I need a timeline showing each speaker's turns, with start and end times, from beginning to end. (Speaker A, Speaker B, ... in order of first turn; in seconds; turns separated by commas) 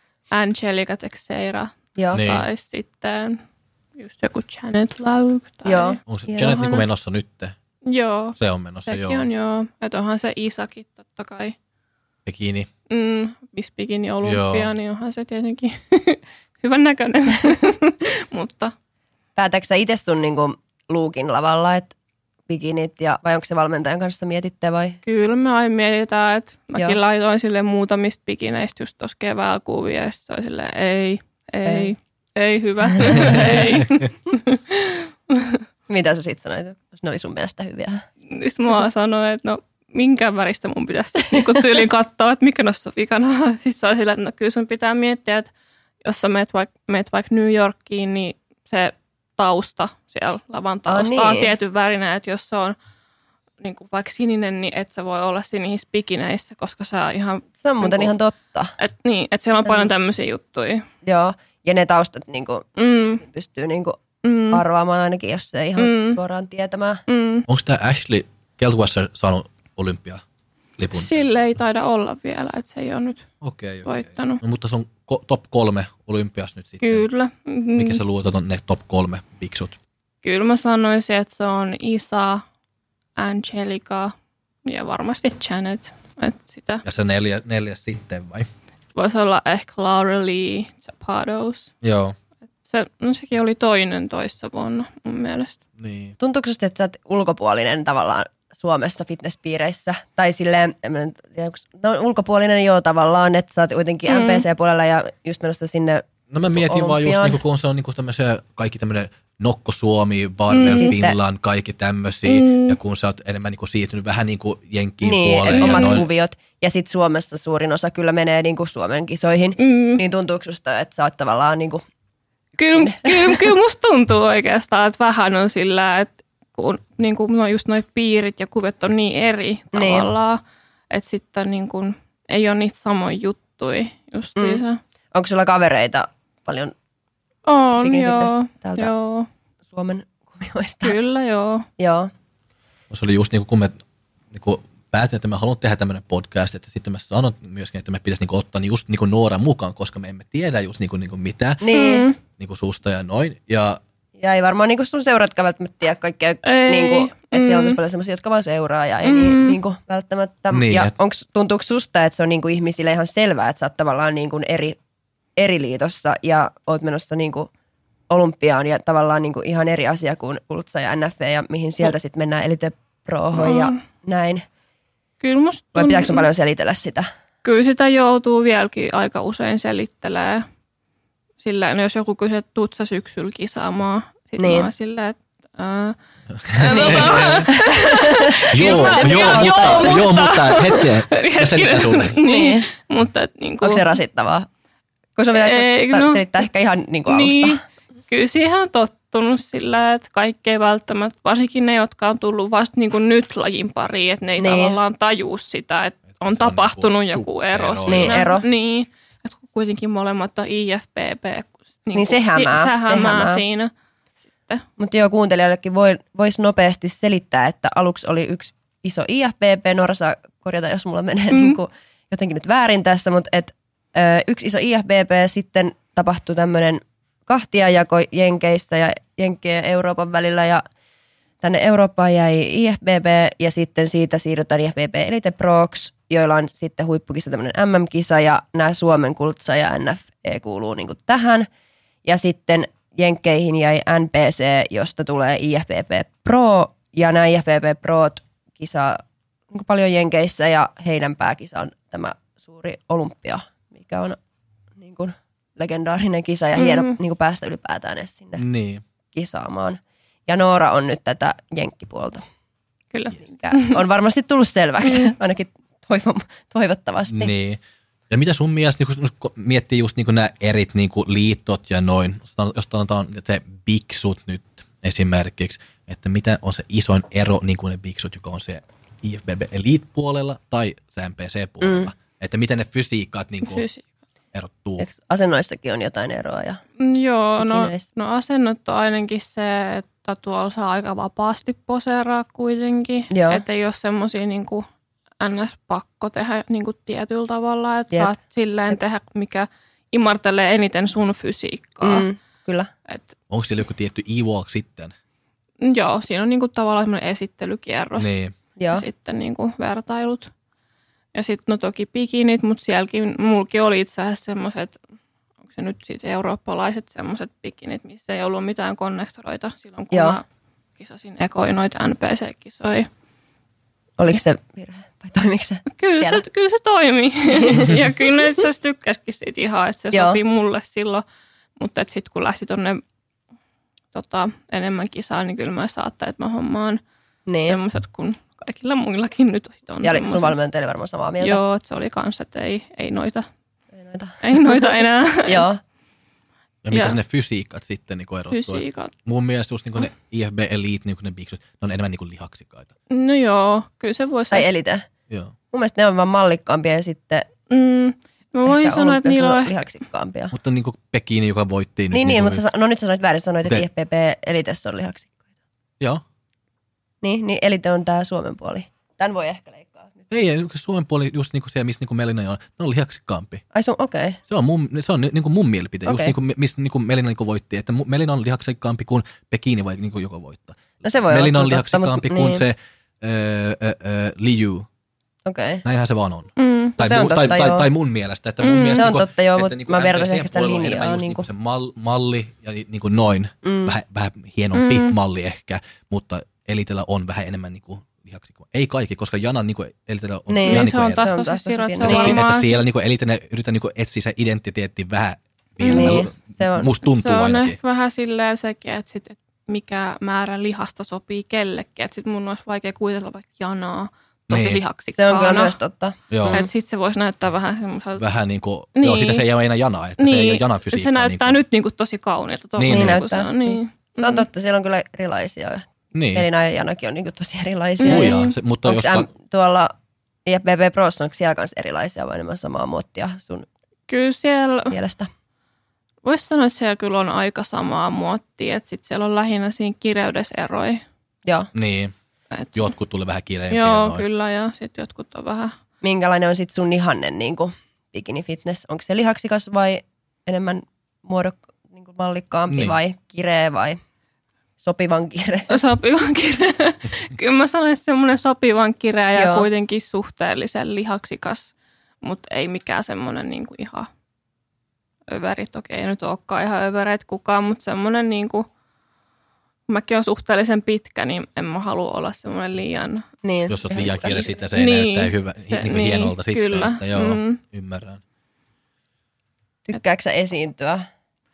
Speaker A: 0.3-3.4, Speaker B: 2.0-2.2, Speaker C: 2.1-2.5, Speaker A: 4.0-6.8, Speaker B: 5.7-6.5, Speaker C: 6.1-7.5, Speaker A: 7.9-11.6, Speaker C: 8.4-9.3, Speaker C: 12.3-12.7, Speaker A: 12.9-18.7, Speaker C: 14.2-14.7, Speaker B: 19.4-21.9, Speaker B: 22.5-25.0, Speaker A: 25.0-35.6, Speaker B: 31.6-31.9, Speaker B: 33.0-33.6, Speaker B: 35.9-38.0, Speaker A: 38.3-45.5, Speaker B: 41.3-41.8, Speaker A: 46.0-52.8, Speaker B: 50.9-51.5, Speaker A: 53.6-58.1, Speaker B: 57.6-58.7, Speaker A: 58.8-60.9, Speaker B: 59.6-59.9, Speaker B: 61.0-64.0, Speaker A: 62.8-63.2, Speaker A: 64.2-64.6, Speaker B: 64.5-67.0, Speaker A: 65.8-66.2, Speaker A: 67.1-67.5, Speaker C: 67.5-70.2, Speaker C: 70.8-71.2, Speaker A: 70.9-73.2, Speaker C: 73.4-77.1, Speaker A: 73.8-74.4, Speaker A: 76.8-78.0, Speaker C: 77.8-79.8, Speaker A: 80.2-82.5, Speaker A: 83.2-84.1, Speaker A: 84.7-86.8, Speaker C: 86.8-88.5, Speaker A: 89.0-91.7, Speaker C: 91.8-92.2, Speaker A: 92.7-95.6, Speaker C: 95.8-96.2, Speaker B: 96.2-107.4, Speaker A: 104.1-104.5, Speaker C: 106.3-116.1, Speaker A: 110.5-110.9, Speaker B: 110.7-111.2, Speaker A: 112.3-112.8, Speaker B: 115.0-121.8, Speaker A: 115.5-116.0, Speaker A: 119.6-120.0, Speaker A: 122.6-134.8, Speaker B: 122.7-123.5, Speaker B: 129.7-130.1, Speaker B: 134.4-134.6, Speaker B: 135.1-136.7, Speaker A: 137.5-139.3, Speaker B: 137.8-138.9, Speaker B: 139.7-141.0, Speaker A: 140.8-141.7, Speaker B: 141.8-142.1, Speaker C: 142.9-143.8, Speaker C: 144.3-151.6, Speaker B: 151.6-152.1, Speaker A: 151.7-152.2, Speaker C: 152.4-153.8, Speaker B: 154.2-164.8, Speaker A: 156.4-157.8, Speaker A: 159.0-159.6, Speaker C: 160.5-160.9, Speaker B: 165.4-167.5, Speaker B: 168.1-174.5, Speaker A: 173.3-173.8, Speaker A: 175.2-176.3, Speaker B: 175.8-177.1, Speaker A: 177.4-180.4, Speaker A: 181.4-186.0, Speaker B: 184.4-184.7, Speaker C: 186.4-187.5, Speaker A: 186.5-193.9, Speaker B: 186.7-190.1, Speaker C: 188.5-192.2, Speaker B: 192.2-192.7, Speaker B: 193.6-194.5, Speaker B: 195.2-197.6, Speaker A: 195.3-196.5, Speaker A: 197.1-213.7, Speaker B: 204.4-204.8, Speaker C: 206.2-208.2, Speaker B: 207.9-208.5, Speaker B: 211.9-213.4, Speaker B: 214.8-230.6, Speaker A: 221.3-221.6, Speaker B: 231.4-241.5, Speaker B: 242.1-254.2, Speaker B: 254.8-258.4, Speaker A: 256.6-256.9, Speaker C: 258.4-258.8, Speaker B: 259.1-262.2, Speaker A: 262.9-263.8, Speaker B: 263.3-267.3, Speaker A: 264.8-265.1, Speaker C: 267.1-283.7, Speaker B: 281.6-281.9, Speaker A: 283.4-283.9, Speaker C: 284.3-284.9, Speaker B: 284.8-286.6, Speaker A: 286.8-294.6, Speaker B: 287.4-287.9, Speaker B: 293.1-293.4, Speaker A: 295.2-302.1, Speaker B: 301.8-302.7, Speaker C: 303.3-304.9, Speaker A: 305.6-308.1, Speaker C: 308.0-308.3, Speaker B: 308.6-308.9, Speaker A: 308.7-310.3, Speaker A: 311.1-314.8, Speaker A: 315.5-320.2, Speaker B: 319.9-320.2, Speaker A: 320.8-322.9, Speaker B: 324.0-326.2, Speaker A: 325.7-331.0, Speaker B: 327.4-327.8, Speaker B: 329.9-330.2, Speaker A: 331.6-332.8, Speaker A: 333.9-336.8, Speaker B: 337.3-337.6, Speaker A: 337.5-340.4, Speaker B: 339.8-341.4, Speaker A: 341.2-343.3, Speaker B: 343.7-345.6, Speaker A: 344.2-345.5, Speaker C: 346.6-352.7, Speaker A: 346.7-347.0, Speaker A: 348.3-348.9, Speaker A: 352.9-354.5, Speaker B: 354.3-354.9, Speaker B: 355.5-357.3, Speaker A: 357.5-359.6, Speaker B: 358.5-360.4, Speaker C: 360.3-362.4, Speaker B: 361.9-365.2, Speaker B: 367.0-370.0, Speaker C: 370.1-373.4, Speaker B: 373.5-374.2, Speaker C: 374.3-384.7, Speaker B: 375.9-376.1, Speaker B: 380.8-382.4, Speaker B: 385.3-385.6, Speaker C: 385.6-401.1, Speaker A: 386.4-386.8, Speaker B: 386.8-387.7, Speaker A: 388.4-388.9, Speaker B: 388.8-391.3, Speaker B: 393.4-393.8, Speaker A: 394.5-394.9, Speaker B: 400.3-402.2, Speaker A: 400.5-402.6, Speaker C: 401.8-407.6, Speaker A: 405.6-406.1, Speaker B: 405.7-406.7, Speaker A: 406.8-415.6, Speaker C: 414.3-414.6, Speaker B: 414.9-416.5, Speaker C: 416.1-416.4, Speaker A: 416.3-418.0, Speaker C: 418.0-421.4, Speaker A: 418.8-419.2, Speaker A: 420.0-424.3, Speaker C: 422.6-423.0, Speaker B: 422.7-429.7, Speaker C: 425.9-426.3, Speaker A: 427.8-428.4, Speaker C: 427.9-429.1, Speaker B: 430.3-433.5, Speaker A: 433.9-434.8, Speaker B: 434.7-435.1, Speaker A: 436.1-440.8, Speaker B: 441.3-441.5, Speaker C: 441.6-441.9, Speaker A: 442.3-442.7, Speaker C: 442.6-444.1, Speaker A: 443.5-445.6, Speaker B: 445.8-453.8, Speaker C: 452.5-452.8, Speaker B: 454.6-455.6, Speaker A: 455.5-463.9, Speaker B: 459.2-459.5, Speaker A: 465.1-468.5, Speaker A: 469.7-473.1, Speaker B: 473.2-474.3, Speaker C: 473.5-478.0, Speaker A: 473.8-477.4, Speaker B: 479.7-480.9